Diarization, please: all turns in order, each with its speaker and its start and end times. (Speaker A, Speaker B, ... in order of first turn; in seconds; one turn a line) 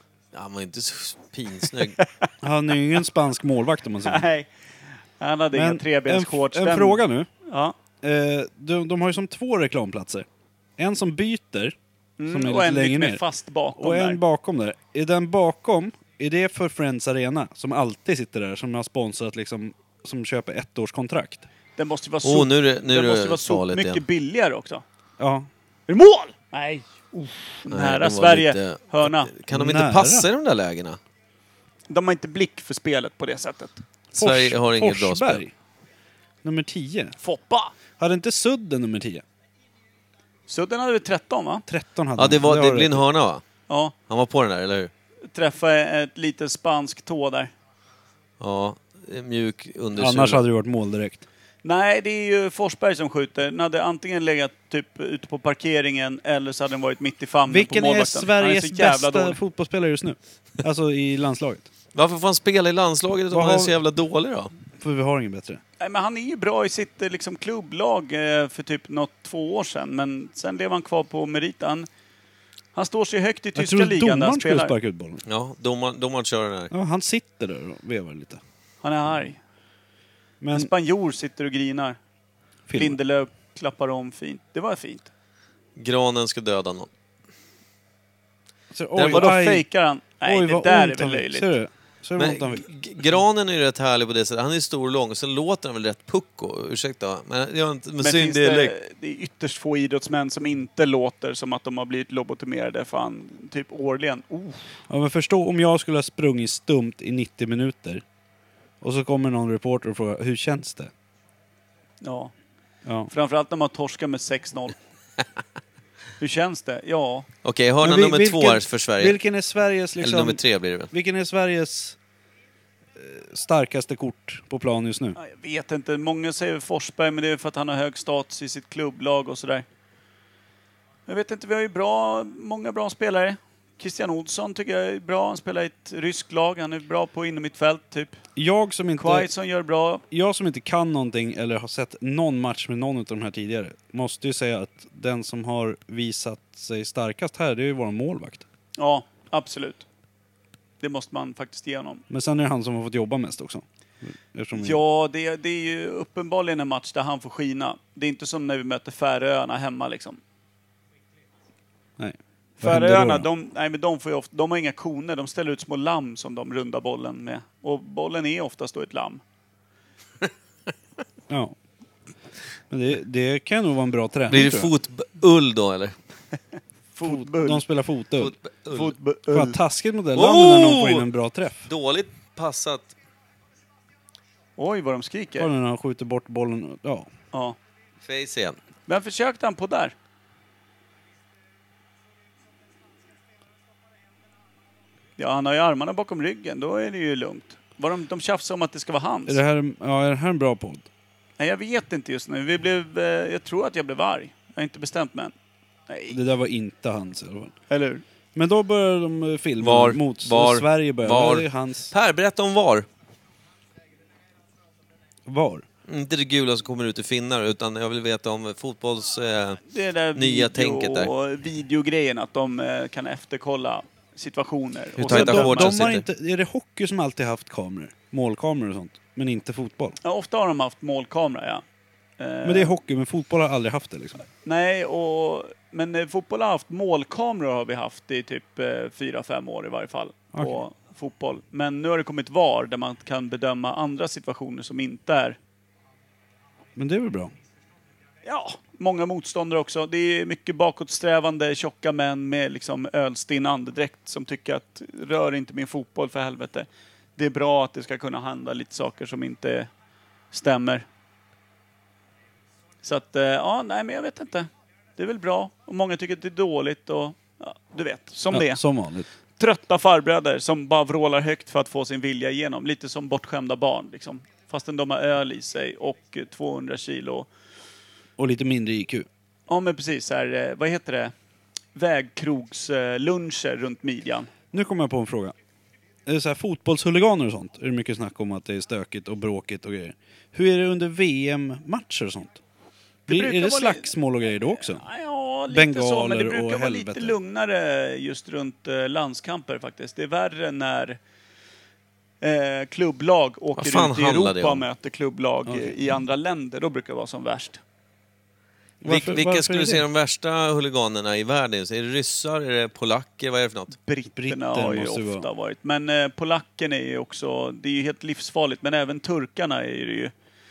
Speaker A: 0.3-2.0
Speaker B: 2.4-4.3
Speaker C: 4.0-4.5
Speaker C: 5.2-7.7
Speaker B: 5.5-7.3
Speaker B: 8.0-11.7
Speaker C: 12.2-14.2
Speaker B: 12.3-13.2
Speaker B: 13.8-21.5
Speaker C: 21.8-24.8
Speaker A: 22.2-24.0
Speaker B: 25.2-25.5
Speaker C: 25.9-29.3
Speaker A: 27.7-31.0
Speaker B: 29.5-30.3
Speaker C: 31.9-33.8
Speaker A: 34.1-35.4
Speaker B: 34.1-35.5
Speaker B: 36.4-37.1
Speaker C: 37.2-37.7
Speaker B: 38.0-39.2
Speaker C: 40.5-41.6
Speaker B: 41.7-43.0
Speaker A: 42.2-43.4
Speaker C: 43.7-43.9
Speaker A: 44.1-44.9
Speaker C: 45.3-47.5
Speaker A: 48.4-50.4
Speaker B: 50.0-51.2
Speaker C: 51.6-59.4
Speaker B: 57.5-61.7
Speaker A: 61.9-64.5
Speaker B: 63.3-63.8
Speaker B: 64.8-65.6
Speaker C: 65.8-71.9
Speaker C: 72.7-74.7
Speaker B: 73.5-75.2
Speaker A: 75.2-76.7
Speaker B: 76.7-78.4
Speaker C: 78.8-79.4
Speaker B: 80.4-80.7
Speaker C: 80.5-82.0
Speaker B: 82.7-83.0
Speaker C: 82.8-85.1
Speaker A: 85.8-86.9
Speaker B: 88.7-89.7
Speaker A: 89.0-89.3
Speaker C: 89.1-91.5
Speaker B: 90.2-92.7
Speaker A: 92.2-98.7
Speaker C: 98.0-104.8
Speaker B: 104.9-108.0
Speaker B: 108.8-110.9
Speaker C: 112.0-112.3
Speaker B: 112.8-113.1
Speaker C: 113.1-114.7
Speaker C: 116.2-117.3
Speaker A: 117.4-119.2
Speaker B: 117.8-122.0
Speaker A: 120.0-120.9
Speaker B: 123.0-125.2
Speaker C: 125.2-129.6
Speaker C: 131.1-138.2
Speaker B: 138.3-139.3
Speaker C: 139.0-140.0
Speaker B: 140.1-148.4
Speaker C: 148.8-149.8
Speaker C: 150.8-152.0
Speaker B: 152.1-154.8
Speaker C: 154.5-160.2
Speaker B: 162.0-163.3
Speaker C: 162.6-169.2
Speaker B: 171.3-171.5
Speaker B: 172.7-174.7
Speaker A: 174.3-175.9
Speaker C: 176.9-177.6
Speaker B: 177.0-178.3
Speaker A: 178.2-178.9
Speaker C: 178.7-179.6
Speaker B: 179.3-181.7
Speaker A: 180.1-181.1
Speaker A: 181.6-182.9
Speaker C: 184.6-185.5
Speaker B: 185.4-187.1
Speaker A: 188.0-188.6
Speaker C: 188.9-189.9
Speaker C: 195.2-199.4
Speaker B: 199.3-200.9
Speaker C: 201.4-205.3
Speaker C: 205.9-206.2
Speaker B: 206.1-207.5
Speaker C: 207.7-208.0
Speaker B: 208.3-211.9
Speaker A: 209.6-212.9
Speaker B: 215.3-215.7
Speaker A: 215.9-219.6
Speaker C: 219.7-225.7
Speaker A: 220.1-221.1
Speaker A: 225.0-226.1
Speaker B: 225.1-230.0
Speaker C: 230.0-231.6
Speaker C: 232.2-232.7
Speaker B: 232.4-234.2
Speaker C: 234.4-245.4
Speaker B: 240.3-240.6
Speaker B: 246.8-247.3
Speaker C: 248.2-259.7
Speaker C: 260.3-260.8
Speaker C: 262.8-268.6
Speaker B: 268.3-269.1
Speaker C: 269.4-277.3
Speaker B: 278.2-279.1
Speaker C: 279.5-281.1
Speaker C: 281.7-284.3
Speaker B: 284.5-285.3
Speaker B: 286.1-292.4
Speaker C: 293.1-301.0
Speaker B: 293.1-294.8
Speaker B: 295.5-297.1
Speaker C: 302.2-307.6
Speaker A: 303.6-304.6
Speaker B: 305.5-305.7
Speaker B: 308.8-309.8
Speaker A: 308.9-313.7
Speaker C: 313.9-320.1
Speaker B: 314.1-315.3